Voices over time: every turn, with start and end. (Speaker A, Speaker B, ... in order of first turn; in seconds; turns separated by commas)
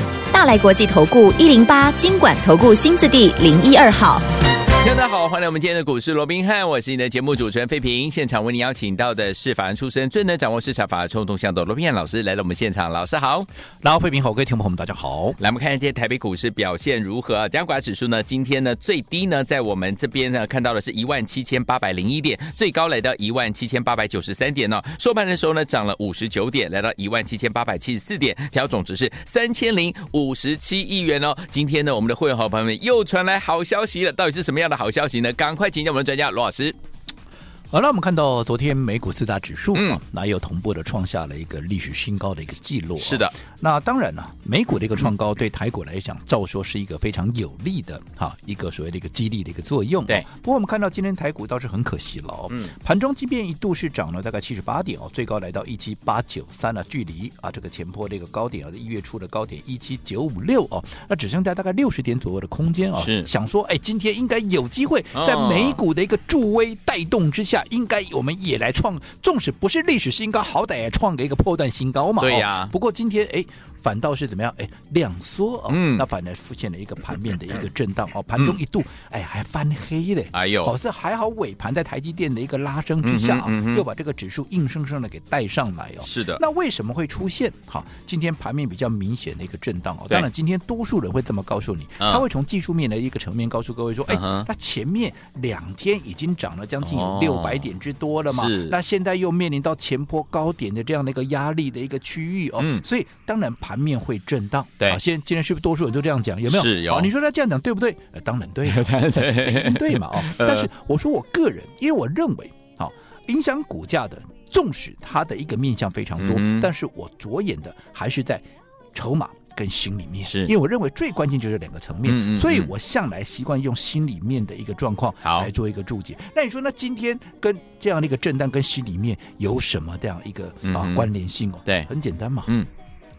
Speaker A: 0.3-4.2, Speaker B: 4.8-13.5, Speaker C: 13.8-15.4, Speaker B: 15.4-36.8, Speaker C: 37.7-132.5, Speaker B: 39.7-40.0, Speaker B: 43.0-43.3, Speaker B: 63.0-63.3, Speaker B: 65.1-65.8, Speaker B: 72.2-72.7, Speaker B: 75.7-76.0, Speaker B: 80.3-80.7, Speaker B: 83.0-83.8, Speaker B: 86.0-86.4, Speaker B: 94.1-94.5, Speaker B: 96.8-97.7, Speaker B: 98.3-98.7, Speaker B: 102.6-102.8, Speaker B: 106.5-107.1, Speaker B: 108.7-110.7, Speaker B: 116.2-116.7, Speaker B: 122.0-122.7, Speaker B: 125.2-125.5, Speaker B: 130.6-131.1